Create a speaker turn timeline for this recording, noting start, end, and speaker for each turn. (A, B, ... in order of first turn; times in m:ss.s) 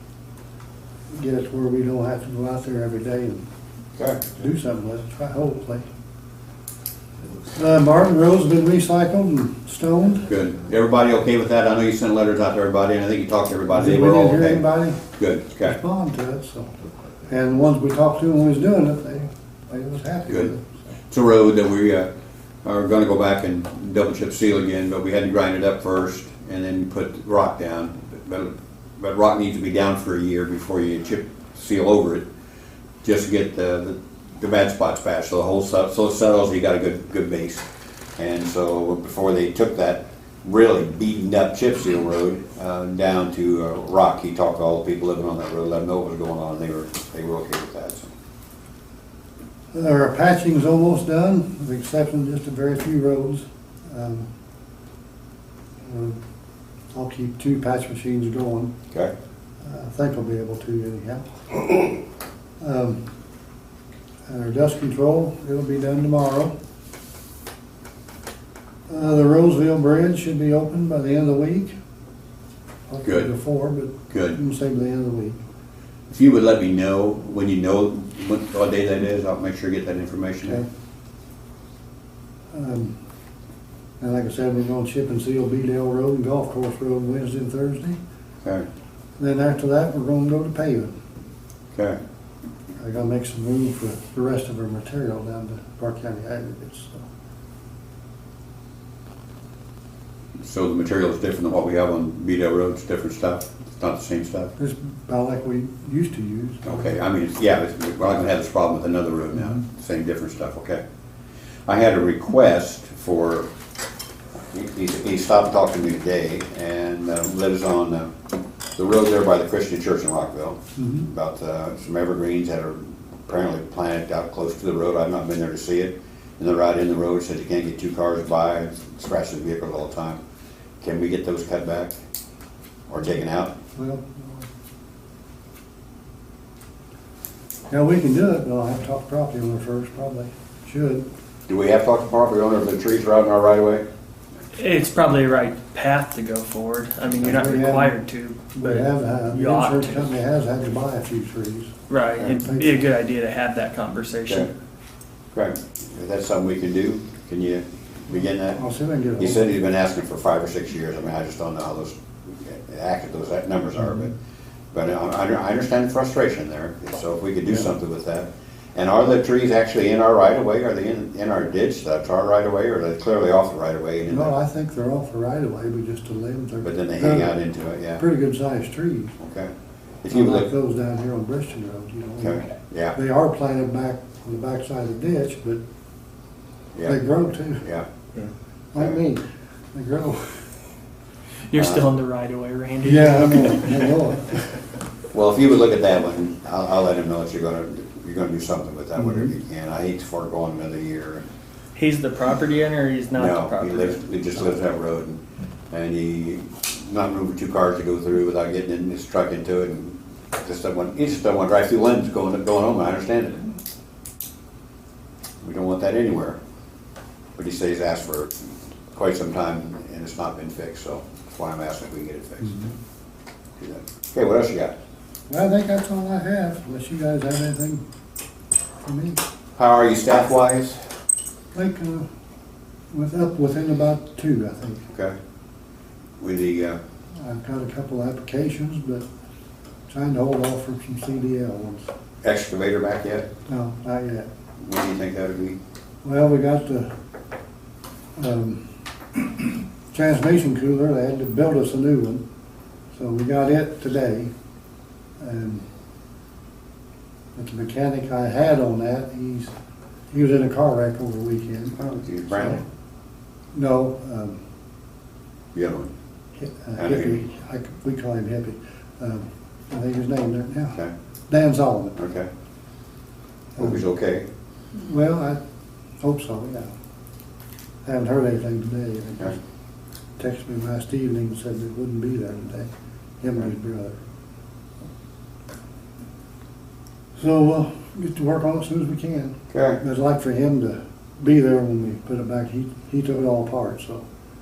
0:01.1-0:03.4 A
0:04.0-0:04.2 B
0:04.3-0:05.8 A
0:07.5-0:10.3 A
0:10.2-0:15.8 B
0:13.7-0:15.0 A
0:15.6-0:16.7 A
0:17.3-0:20.7 A
0:21.1-0:22.1 B
0:22.6-0:32.3 B
0:33.0-0:37.6 B
0:38.2-0:48.1 B
0:49.7-0:54.3 A
0:55.8-0:56.2 A
0:56.9-0:58.7 A
0:59.6-1:02.0 A
1:02.6-1:03.0 A
1:04.3-1:06.5 A
1:08.9-1:11.8 A
1:12.9-1:15.4 A
1:13.0-1:13.3 B
1:14.1-1:14.4 B
1:16.1-1:20.6 B
1:22.5-1:23.0 A
1:24.0-1:28.0 A
1:29.2-1:31.0 A
1:32.8-1:37.0 A
1:40.4-1:44.5 B
1:44.6-1:46.9 A
1:46.6-1:50.8 B
1:51.7-1:53.5 B
1:54.5-1:58.1 B
1:58.8-2:10.2 B
2:00.8-2:01.1 A
2:10.8-2:12.0 B
2:12.9-2:13.5 B
2:13.8-2:14.4 A
2:17.7-2:21.1 A
2:21.5-2:23.8 B
2:24.5-2:30.1 C
2:27.2-2:28.0 A
2:28.6-2:31.7 A
2:31.9-2:34.5 C
2:32.3-2:32.8 A
2:35.3-2:38.6 B
2:38.5-2:39.5 A
2:39.2-2:44.1 B
2:44.7-2:54.3 B
2:54.1-2:57.4 A
2:56.6-2:58.0 B
2:58.0-2:59.2 A
2:59.2-2:59.5 B
3:00.0-3:00.5 B
3:00.1-3:05.6 A
3:02.2-3:03.0 B
3:06.8-3:07.0 B
3:06.8-3:07.6 A
3:08.7-3:10.5 A
3:11.5-3:13.9 C
3:11.5-3:11.9 B
3:12.8-3:14.5 A
3:15.1-3:21.2 B
3:21.8-3:24.0 C
3:23.1-3:25.2 B
3:25.7-3:33.5 B
3:35.4-3:36.4 B
3:37.4-3:38.3 B
3:38.9-3:42.6 B
3:42.5-3:42.7 A
3:43.6-3:44.7 B
3:45.3-3:47.8 A
3:48.8-3:49.2 A
3:49.6-3:50.9 B
3:51.5-3:52.1 A
3:52.9-3:54.9 A
3:54.9-3:55.2 B
3:56.2-3:56.8 B
3:57.2-3:59.1 A
3:59.9-4:01.9 A
4:02.2-4:03.3 B
4:03.5-4:04.3 A
4:04.6-4:05.6 B
4:06.0-4:06.9 A
4:08.2-4:08.6 A
4:09.2-4:12.2 A
4:12.9-4:14.3 A
4:15.2-4:15.6 A
4:17.4-4:19.5 A
4:20.1-4:21.8 A
4:21.8-4:22.6 B
4:22.3-4:22.6 A
4:23.5-4:24.4 A
4:25.5-4:25.9 B
4:26.4-4:30.8 A
4:26.8-4:27.2 B
4:31.3-4:32.0 A
4:32.0-4:32.3 B
4:33.6-4:34.3 B
4:34.7-4:35.4 A
4:36.0-4:36.7 A
4:37.8-4:39.4 A
4:40.2-4:42.7 A
4:43.2-4:44.0 A
4:47.2-4:54.1 A
4:49.5-4:49.8 B